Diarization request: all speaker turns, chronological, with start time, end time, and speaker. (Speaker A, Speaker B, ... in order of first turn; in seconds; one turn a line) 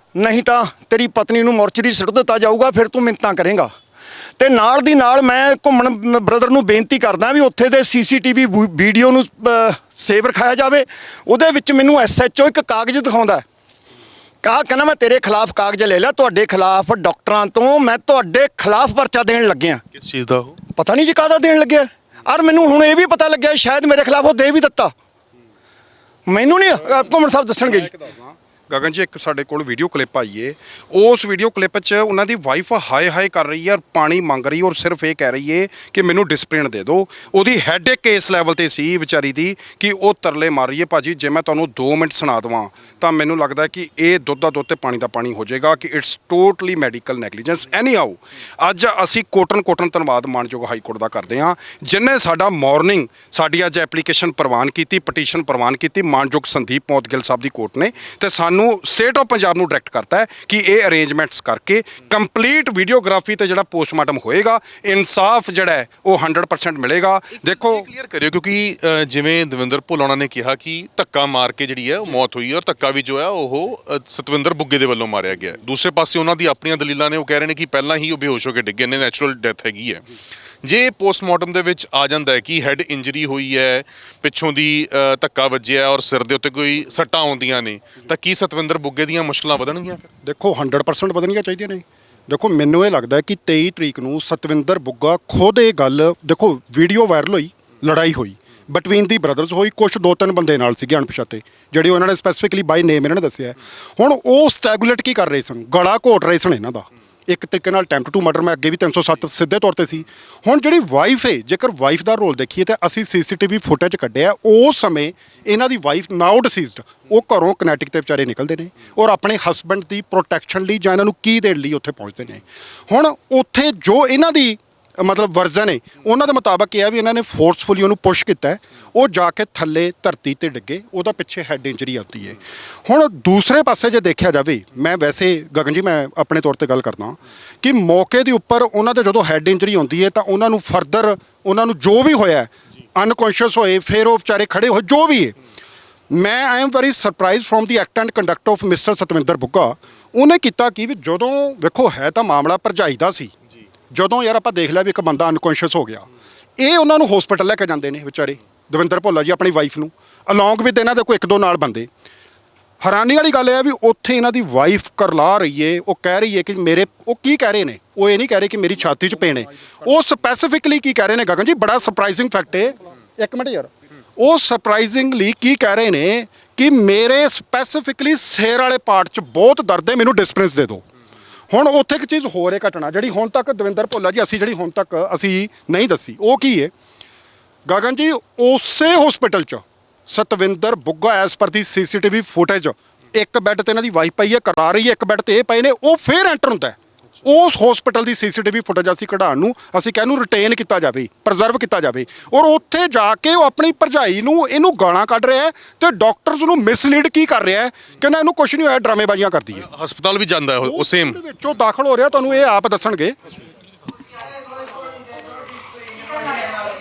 Speaker A: 0.2-3.7
Speaker A: 4.4-13.4
Speaker A: 14.4-19.8
Speaker B: 19.9-20.6
Speaker A: 20.8-24.9
Speaker A: 26.3-27.9
Speaker C: 27.6-67.9
Speaker B: 67.4-80.0
Speaker B: 80.6-90.1
Speaker D: 90.2-145.3
Speaker D: 146.1-153.3
Speaker D: 153.9-156.1
Speaker D: 156.6-161.9
Speaker D: 162.8-180.8
Speaker D: 181.5-186.7
Speaker D: 187.7-209.7
Speaker B: 209.6-211.2
Speaker D: 210.6-213.2
Speaker A: 215.9-216.6